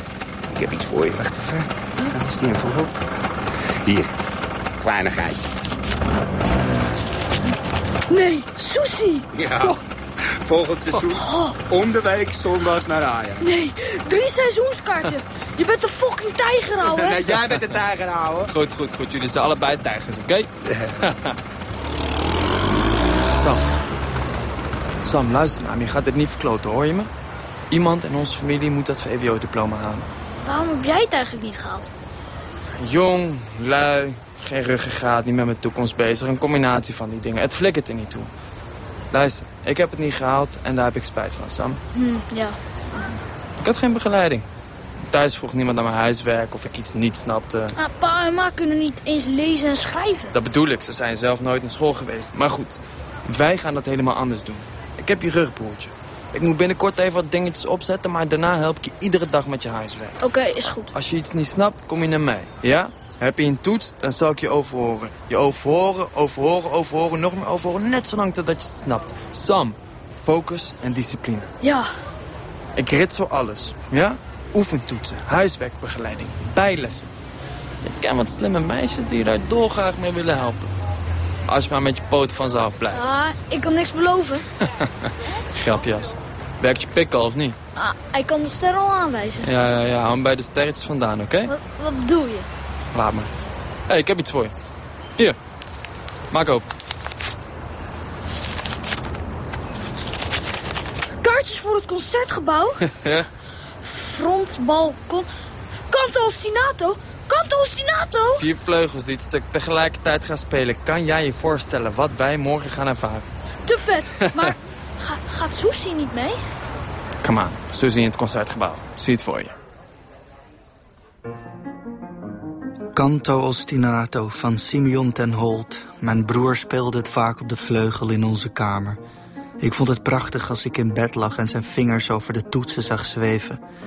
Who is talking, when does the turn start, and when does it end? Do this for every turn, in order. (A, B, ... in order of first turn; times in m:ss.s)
0:00.5-0:02.9 A
0:03.8-0:04.1 A
0:04.8-0:05.4 A
0:08.1-0:09.7 B
0:09.3-0:13.4 A
0:11.1-0:11.6 B
0:13.4-0:17.2 B
0:16.8-0:18.5 A
0:18.5-0:20.5 C
0:20.7-0:21.0 A
0:21.0-0:21.3 C
0:23.4-0:23.6 C
0:25.0-0:27.1 C
0:27.7-0:30.1 C
0:30.4-0:31.9 B
0:32.8-0:38.3 C
0:39.1-0:41.8 C
0:41.9-0:42.6 B
0:43.6-0:44.5 C
0:45.1-0:47.8 C
0:47.8-0:50.3 B
0:50.3-1:00.2 C
1:00.2-1:00.9 B
1:00.9-1:11.5 C
1:11.6-1:11.9 B
1:12.8-1:17.1 C
1:17.8-1:20.7 C
1:21.5-1:23.1 C
1:22.9-1:24.5 B
1:25.5-1:27.6 C
1:27.8-1:29.5 B
1:29.4-1:31.5 C
1:31.5-1:32.5 B
1:32.9-1:33.3 C
1:33.9-1:34.5 C
1:36.3-1:36.7 C
1:41.2-1:42.9 B
1:42.9-1:43.3 C
1:43.8-1:45.3 B
1:45.9-1:48.4 B
1:48.3-1:53.3 C
1:53.6-1:56.4 B
1:54.2-1:54.5 C
1:57.2-1:59.5 C
2:02.9-2:09.0 D
2:09.6-2:13.6 D